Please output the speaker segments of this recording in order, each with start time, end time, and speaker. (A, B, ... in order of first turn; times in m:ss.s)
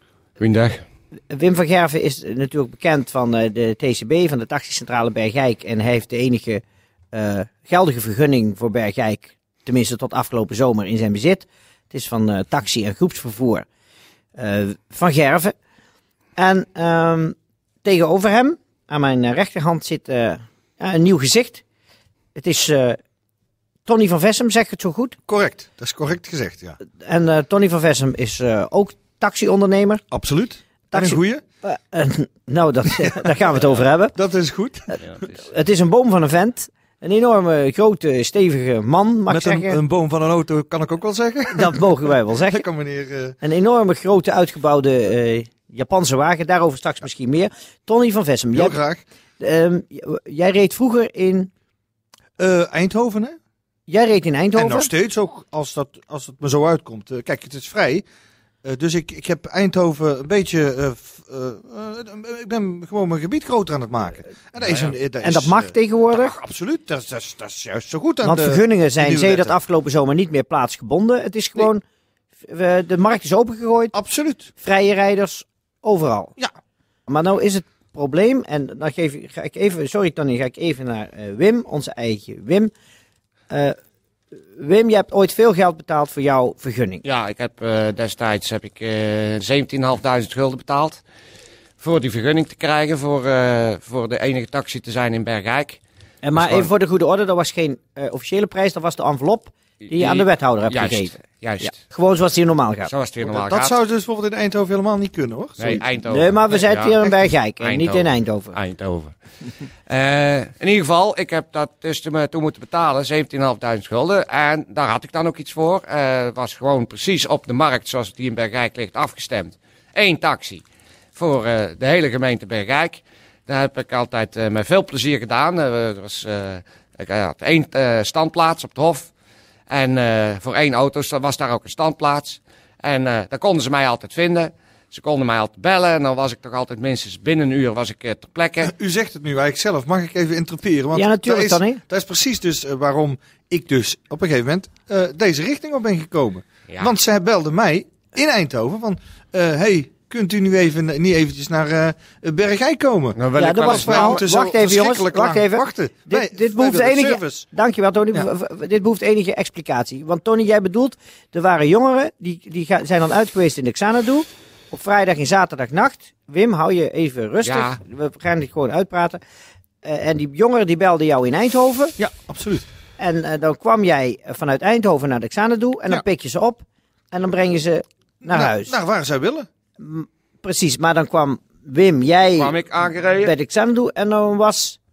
0:00.4-0:00.8 A
0:01.3-0:06.6 B
0:07.1-0:13.6 B
0:14.4-0:15.5 B
0:16.4-0:21.6 B
0:22.3-0:23.0 B
0:23.8-0:25.2 B
0:25.3-0:26.8 C
0:26.9-0:30.0 B
0:30.1-0:31.4 C
0:30.9-0:34.2 B
0:34.1-0:35.1 C
0:35.3-0:39.8 B
0:39.3-0:43.4 C
0:41.5-0:42.6 B
0:43.4-0:48.8 B
0:48.5-0:49.0 C
0:49.4-0:51.5 B
0:52.4-0:53.4 C
0:53.9-0:54.9 B
0:54.5-0:58.0 C
0:58.6-1:09.6 C
1:04.6-1:04.9 A
1:05.2-1:06.4 B
1:08.2-1:11.8 B
1:12.4-1:13.9 B
1:13.9-1:14.5 C
1:14.6-1:16.3 B
1:17.1-1:22.7 B
1:23.5-1:23.8 B
1:24.5-1:27.0 B
1:27.0-1:31.0 A
1:31.8-1:35.8 A
1:36.2-1:42.9 B
1:36.3-1:36.7 A
1:39.8-1:41.8 A
1:42.8-1:43.8 A
1:43.2-1:45.8 C
1:45.6-1:49.1 A
1:46.1-1:48.6 B
1:49.9-2:00.6 A
2:01.2-2:09.1 A
2:09.7-2:18.7 A
2:18.6-2:37.5 C
2:20.9-2:21.8 B
2:33.2-2:34.2 A
2:33.3-2:49.2 B
2:47.4-2:47.8 A
2:49.8-2:51.9 B
2:52.0-2:52.6 C
2:53.0-2:58.7 B
2:58.2-2:59.5 C
2:59.8-3:02.6 B
3:02.4-3:03.3 A
3:03.2-3:04.8 B